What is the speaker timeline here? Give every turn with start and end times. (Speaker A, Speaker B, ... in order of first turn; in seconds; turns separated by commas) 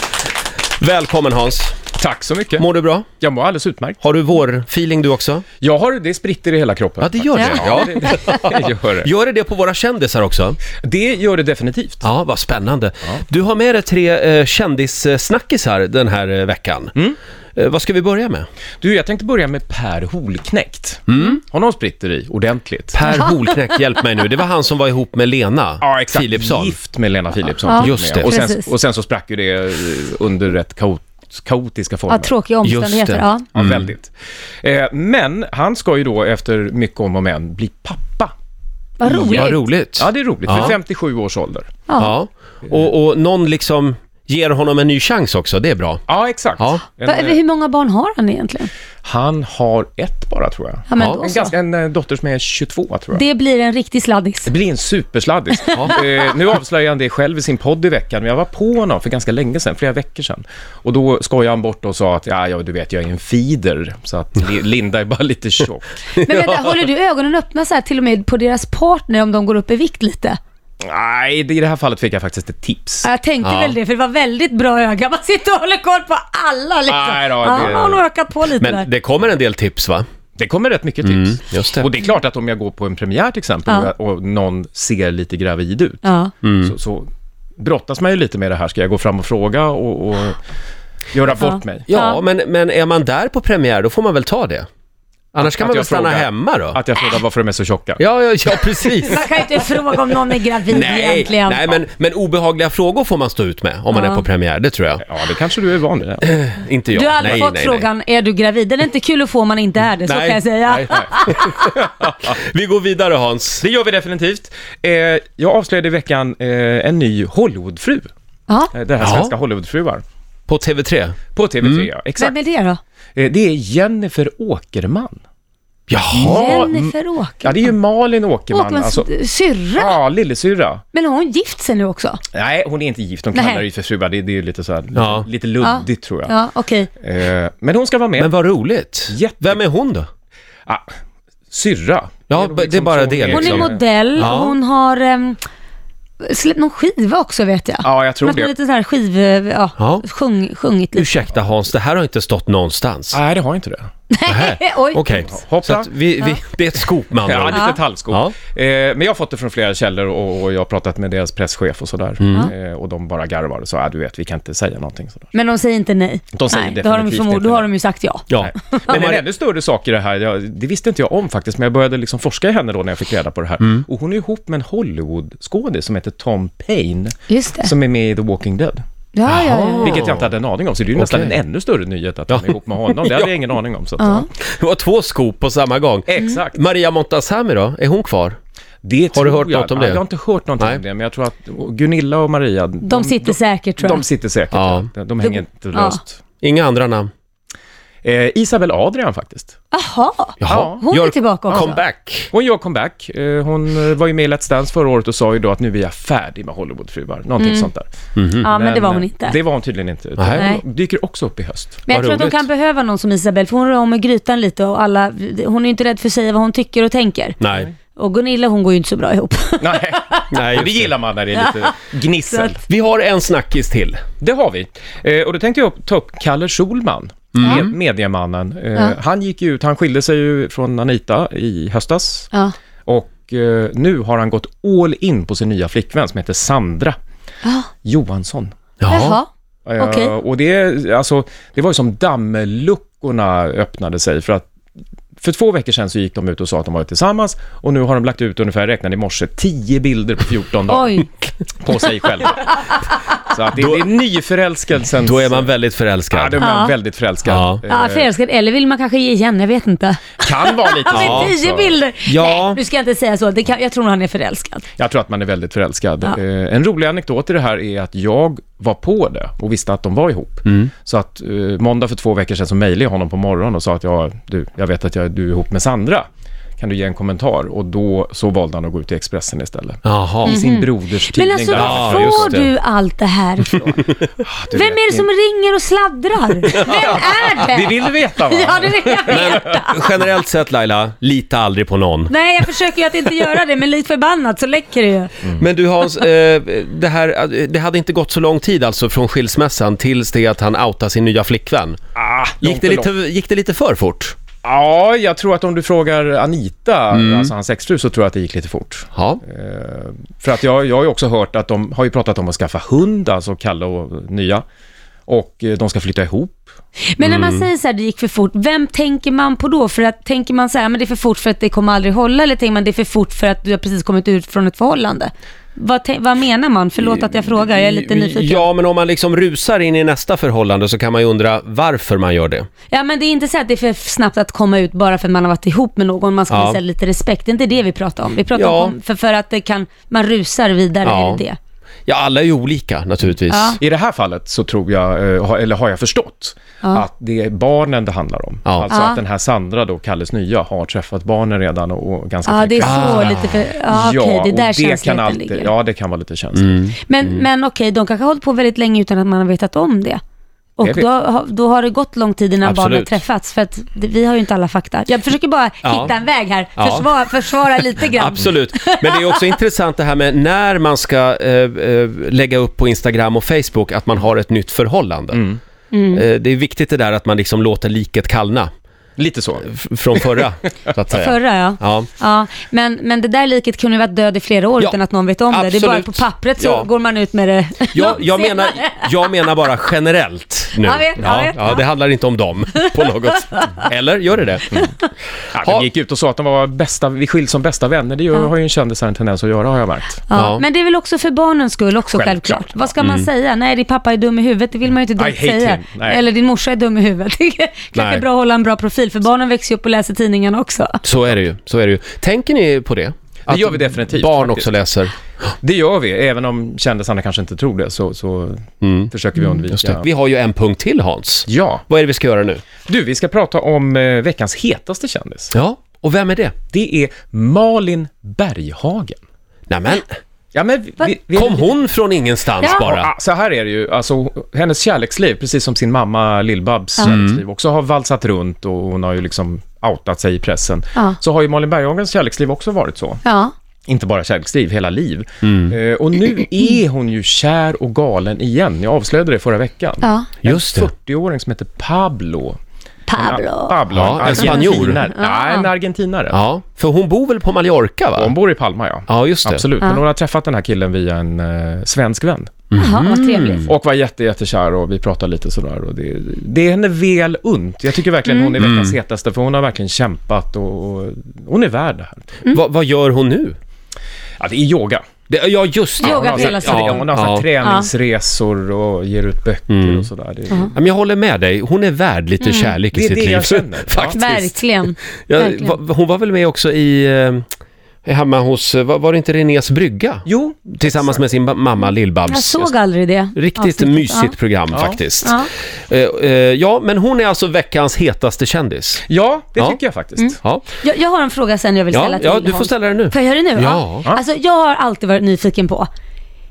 Speaker A: 0.8-1.8, Speaker B: 1.9-2.6, Speaker A: 2.6-3.0, Speaker B: 3.2-4.0, Speaker A: 4.0-5.4, Speaker B: 5.6-9.1, Speaker A: 7.0-10.6, Speaker C: 7.3-7.9, Speaker B: 10.8-12.0, Speaker A: 12.0-16.9, Speaker A: 17.5-18.4, Speaker B: 18.8-23.0, Speaker A: 21.1-21.4, Speaker A: 22.9-26.8, Speaker C: 23.1-23.4, Speaker B: 25.8-32.3, Speaker C: 27.7-28.7, Speaker A: 27.8-28.3, Speaker C: 32.1-33.5, Speaker A: 32.6-33.9, Speaker B: 33.5-38.3, Speaker C: 39.0-39.6, Speaker A: 39.0-40.8, Speaker B: 39.1-41.7, Speaker C: 41.9-42.1, Speaker A: 42.0-46.0, Speaker B: 46.1-47.4, Speaker C: 47.0-48.7, Speaker B: 49.0-53.2, Speaker C: 50.9-51.5, Speaker A: 51.0-51.2, Speaker C: 53.1-54.5, Speaker B: 54.5-65.9, Speaker C: 55.5-56.0, Speaker A: 66.2-66.5, Speaker C: 66.2-70.4, Speaker B: 70.8-73.1, Speaker C: 73.0-78.8, Speaker A: 73.4-73.8, Speaker B: 76.9-78.0, Speaker A: 78.4-80.0, Speaker B: 80.4-86.1, Speaker A: 81.0-81.9, Speaker C: 86.0-86.3, Speaker A: 86.4-86.7, Speaker B: 86.6-90.4, Speaker B: 91.1-91.9, Speaker C: 91.4-92.2, Speaker A: 91.9-94.7, Speaker A: 95.3-96.8, Speaker B: 95.4-98.0, Speaker A: 98.0-99.2, Speaker C: 99.0-101.8, Speaker A: 100.7-105.0, Speaker C: 103.9-104.2, Speaker B: 105.0-106.2, Speaker A: 106.2-107.8, Speaker C: 106.9-111.6, Speaker A: 110.0-113.6, Speaker B: 111.6-112.3, Speaker B: 113.6-118.1, Speaker C: 118.5-118.7, Speaker B: 118.7-120.0, Speaker A: 119.0-119.3, Speaker A: 120.5-121.9, Speaker B: 121.3-122.3, Speaker C: 122.2-122.8, Speaker B: 123.2-125.2, Speaker A: 125.9-126.7, Speaker B: 126.1-129.1, Speaker C: 126.3-127.7, Speaker C: 128.5-130.0, Speaker B: 129.7-130.8, Speaker C: 130.9-132.2, Speaker B: 132.3-136.3, Speaker C: 133.3-133.6, Speaker A: 134.9-135.3, Speaker C: 135.6-136.9, Speaker B: 137.0-138.3, Speaker A: 138.2-140.1, Speaker B: 139.1-139.6, Speaker B: 141.5-143.8, Speaker A: 142.3-144.6, Speaker C: 143.3-145.4, Speaker C: 146.2-151.1, Speaker B: 147.8-148.5, Speaker A: 149.8-150.0, Speaker A: 150.9-153.2, Speaker B: 153.1-153.9, Speaker C: 154.1-155.1, Speaker A: 154.2-158.3, Speaker B: 155.1-155.9, Speaker B: 157.2-165.3, Speaker C: 157.5-157.8, Speaker A: 162.2-162.5, Speaker C: 165.3-169.0, Speaker B: 166.3-167.7, Speaker A: 168.3-169.2, Speaker B: 168.4-178.8, Speaker C: 177.3-177.7, Speaker C: 179.1-180.0, Speaker A: 179.3-180.3, Speaker B: 179.8-184.3, Speaker A: 181.0-181.3, Speaker A: 182.3-183.3, Speaker C: 184.0-184.2, Speaker A: 184.5-188.4, Speaker B: 186.1-186.6, Speaker B: 188.8-196.2, Speaker A: 189.1-190.0, Speaker C: 192.8-194.0, Speaker A: 194.5-194.9, Speaker C: 195.2-196.0, Speaker A: 196.4-197.1, Speaker B: 198.0-199.5, Speaker C: 199.7-201.8, Speaker A: 200.4-202.3, Speaker B: 200.4-200.8, Speaker B: 202.3-207.9, Speaker C: 207.4-207.7, Speaker A: 208.2-208.5, Speaker C: 208.4-209.4, Speaker B: 208.4-211.8, Speaker A: 210.2-210.5, Speaker C: 210.3-210.6, Speaker C: 211.8-217.4, Speaker A: 211.9-212.4, Speaker A: 217.4-217.7, Speaker C: 217.9-220.2, Speaker B: 219.6-222.6, Speaker A: 220.3-220.9, Speaker C: 221.3-221.7, Speaker C: 222.3-222.6, Speaker A: 222.7-224.0, Speaker B: 224.2-232.3, Speaker A: 227.3-227.7, Speaker C: 227.4-227.7, Speaker B: 232.8-236.9, Speaker C: 237.4-237.7, Speaker B: 237.8-238.5, Speaker A: 238.8-239.2, Speaker C: 238.9-239.3, Speaker B: 239.7-244.5, Speaker C: 239.8-240.1, Speaker B: 245.2-251.1, Speaker C: 250.7-251.2, Speaker B: 251.6-252.6, Speaker B: 253.2-255.5, Speaker A: 253.5-253.8, Speaker A: 255.0-256.4, Speaker B: 256.1-258.1, Speaker C: 256.4-256.7, Speaker A: 257.2-257.6, Speaker C: 257.6-264.6, Speaker B: 260.2-261.8, Speaker A: 260.9-261.4, Speaker A: 262.0-262.6, Speaker B: 264.8-276.1, Speaker A: 270.4-270.7, Speaker B: 276.6-282.5, Speaker A: 279.8-280.4, Speaker C: 280.2-283.8, Speaker A: 281.5-282.4, Speaker B: 284.2-285.1, Speaker C: 284.5-289.8, Speaker B: 286.5-289.4, Speaker A: 289.1-292.1, Speaker C: 292.1-295.1, Speaker A: 295.3-301.8, Speaker B: 301.9-302.9, Speaker A: 302.4-304.1, Speaker B: 304.4-314.4, Speaker A: 306.9-307.3, Speaker A: 308.9-309.2, Speaker B: 315.1-316.4, Speaker C: 316.9-328.5, Speaker A: 317.0-317.5, Speaker A: 326.8-332.5, Speaker C: 332.7-341.4, Speaker A: 336.3-336.6, Speaker A: 338.3-338.7, Speaker A: 340.8-341.2, Speaker A: 341.9-343.6, Speaker C: 343.3-343.6, Speaker B: 343.6-356.6, Speaker A: 348.4-348.7, Speaker C: 348.7-349.0, Speaker C: 352.2-355.5, Speaker A: 352.6-353.3, Speaker A: 356.3-357.2, Speaker C: 356.9-360.0, Speaker C: 360.6-369.2, Speaker B: 360.6-360.9, Speaker A: 362.4-363.0, Speaker A: 365.6-365.9, Speaker A: 366.6-375.2, Speaker B: 375.1-375.4, Speaker C: 375.7-376.0, Speaker A: 375.9-378.5, Speaker B: 379.0-380.2, Speaker A: 379.4-381.9, Speaker C: 380.9-389.1, Speaker A: 385.3-386.7, Speaker A: 387.7-394.6, Speaker C: 390.6-391.6, Speaker B: 395.3-400.0, Speaker C: 400.1-410.8, Speaker A: 400.1-400.4, Speaker B: 401.9-402.7, Speaker A: 402.8-403.1, Speaker B: 404.9-406.0, Speaker A: 407.7-408.0, Speaker A: 410.8-414.9, Speaker B: 413.2-414.6, Speaker B: 415.4-419.9, Speaker A: 418.6-418.9, Speaker A: 419.5-422.4, Speaker B: 421.3-421.6, Speaker B: 422.6-425.3, Speaker A: 425.3-426.3, Speaker B: 426.5-429.0, Speaker A: 429.5-429.9, Speaker B: 430.3-431.5, Speaker A: 431.1-432.9, Speaker B: 432.4-443.0, Speaker A: 436.8-437.2, Speaker C: 443.0-443.3, Speaker B: 443.7-452.4, Speaker A: 445.2-445.5, Speaker C: 449.8-450.1, Speaker A: 450.2-450.7, Speaker C: 452.9-455.4, Speaker B: 453.0-456.2, Speaker A: 453.7-454.8, Speaker A: 456.1-458.1, Speaker B: 457.9-472.2, Speaker A: 458.9-459.4, Speaker A: 462.5-463.5, Speaker C: 462.6-463.5, Speaker C: 468.1-468.4, Speaker A: 468.4-468.7, Speaker A: 472.3-473.4, Speaker B: 474.2-474.8, Speaker A: 475.1-477.3, Speaker C: 475.8-477.7, Speaker B: 475.8-480.5, Speaker A: 479.5-479.9, Speaker A: 480.5-484.3, Speaker C: 482.2-482.6, Speaker B: 482.7-484.0, Speaker C: 483.9-485.6, Speaker A: 485.1-487.3, Speaker A: 487.8-492.5, Speaker B: 490.0-491.0, Speaker C: 492.1-494.2, Speaker A: 493.1-498.8, Speaker B: 494.5-494.8, Speaker C: 495.0-495.3, Speaker B: 498.9-500.2, Speaker C: 500.0-505.7, Speaker A: 500.2-500.4, Speaker A: 501.7-503.8